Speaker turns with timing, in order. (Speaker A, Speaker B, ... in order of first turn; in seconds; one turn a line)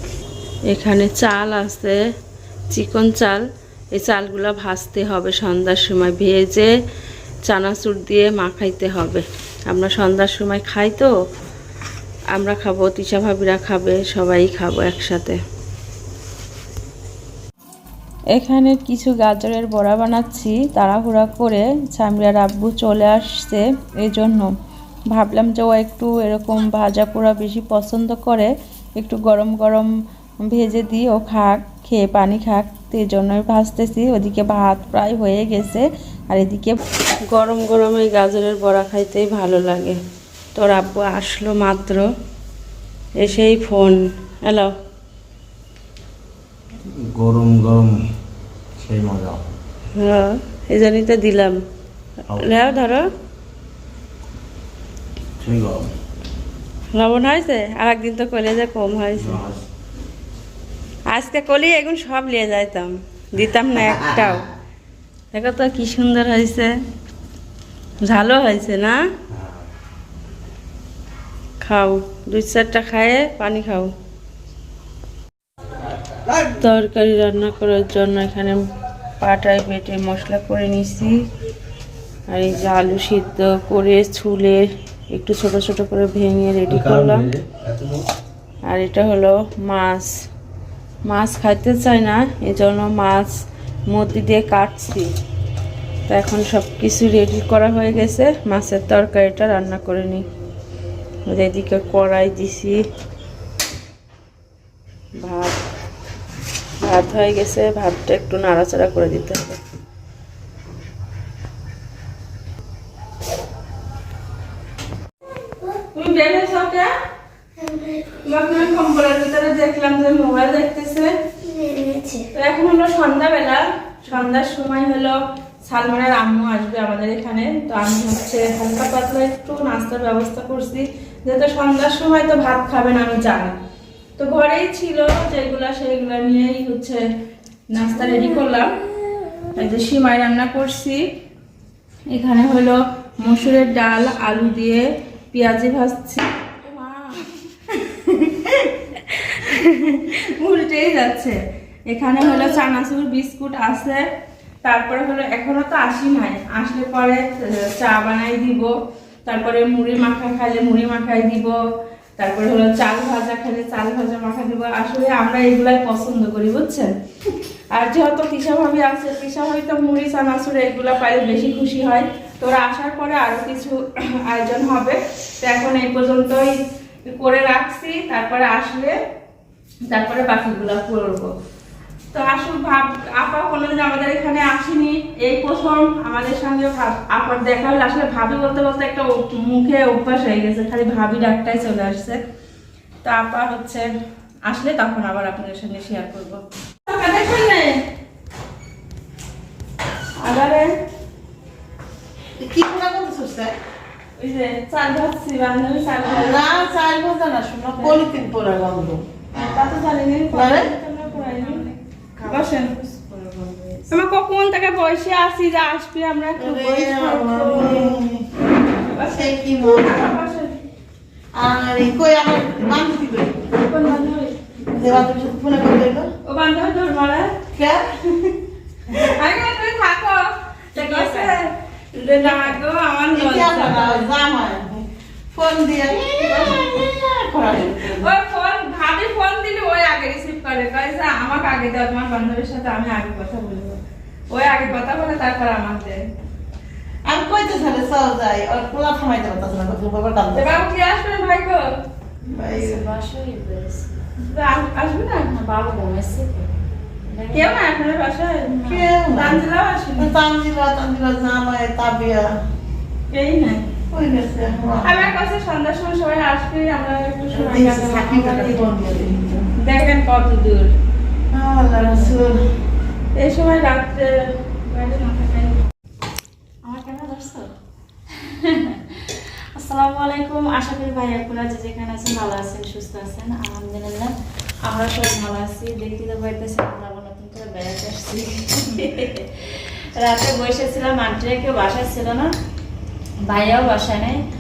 Speaker A: 0.7-2.0
Speaker A: 2.7-3.4
Speaker A: 3.9-6.7
Speaker A: 7.5-11.1
Speaker A: 12.3-15.4
Speaker A: 18.3-24.5
Speaker A: 25.1-29.9
Speaker A: 30.4-36.8
Speaker A: 37.3-40.0
Speaker A: 40.6-42.0
Speaker A: 43.2-44.7
Speaker B: 46.9-48.0
Speaker B: 48.8-49.4
Speaker A: 50.0-51.6
Speaker A: 52.4-53.1
Speaker B: 55.4-55.9
Speaker A: 56.9-59.4
Speaker B: 59.2-59.6
Speaker A: 61.1-64.5
Speaker A: 65.3-66.7
Speaker A: 68.0-69.0
Speaker A: 71.6-73.9
Speaker A: 76.5-78.6
Speaker A: 79.2-81.2
Speaker A: 82.3-87.3
Speaker B: 86.7-88.0
Speaker A: 88.7-90.1
Speaker A: 91.1-93.3
Speaker A: 93.9-95.1
Speaker A: 96.1-100.2
Speaker A: 101.3-102.8
Speaker A: 105.2-105.6
Speaker A: 106.8-109.6
Speaker A: 115.9-116.9
Speaker A: 118.2-121.1
Speaker A: 122.3-133.6
Speaker A: 134.2-137.0
Speaker A: 137.7-138.8
Speaker A: 139.6-141.0
Speaker A: 142.1-151.4
Speaker A: 151.9-154.0
Speaker A: 154.6-158.7
Speaker A: 159.3-161.6
Speaker A: 162.2-166.9
Speaker A: 167.7-178.9
Speaker A: 179.9-181.3
Speaker A: 182.1-192.2
Speaker A: 193.1-193.9
Speaker A: 194.5-197.8
Speaker A: 200.2-200.7
Speaker C: 202.4-203.5
Speaker A: 204.2-206.4
Speaker C: 206.1-209.0
Speaker A: 209.3-211.6
Speaker C: 210.3-210.7
Speaker D: 211.0-214.0
Speaker A: 212.3-212.7
Speaker A: 213.9-218.0
Speaker C: 216.4-218.2
Speaker A: 218.8-220.6
Speaker C: 219.1-220.1
Speaker C: 221.3-223.4
Speaker A: 223.6-224.3
Speaker C: 224.7-226.1
Speaker A: 226.3-227.3
Speaker C: 227.5-227.8
Speaker A: 228.9-234.1
Speaker D: 230.8-231.3
Speaker D: 232.2-232.6
Speaker C: 233.1-238.1
Speaker A: 236.2-236.8
Speaker A: 238.0-246.0
Speaker C: 247.1-250.6
Speaker A: 250.3-251.7
Speaker C: 252.3-252.8
Speaker D: 252.5-253.9
Speaker A: 254.2-255.3
Speaker D: 255.3-256.5
Speaker D: 257.1-257.6
Speaker A: 257.3-258.6
Speaker D: 258.5-258.9
Speaker C: 258.6-259.4
Speaker A: 259.1-260.1
Speaker C: 260.0-262.3
Speaker A: 263.1-263.6
Speaker C: 263.9-265.0
Speaker A: 264.8-268.5
Speaker C: 267.3-269.5
Speaker D: 268.2-268.6
Speaker A: 269.6-270.7
Speaker C: 271.3-272.4
Speaker A: 273.1-275.6
Speaker D: 276.7-277.4
Speaker D: 278.2-284.1
Speaker D: 284.6-292.3
Speaker D: 293.3-294.2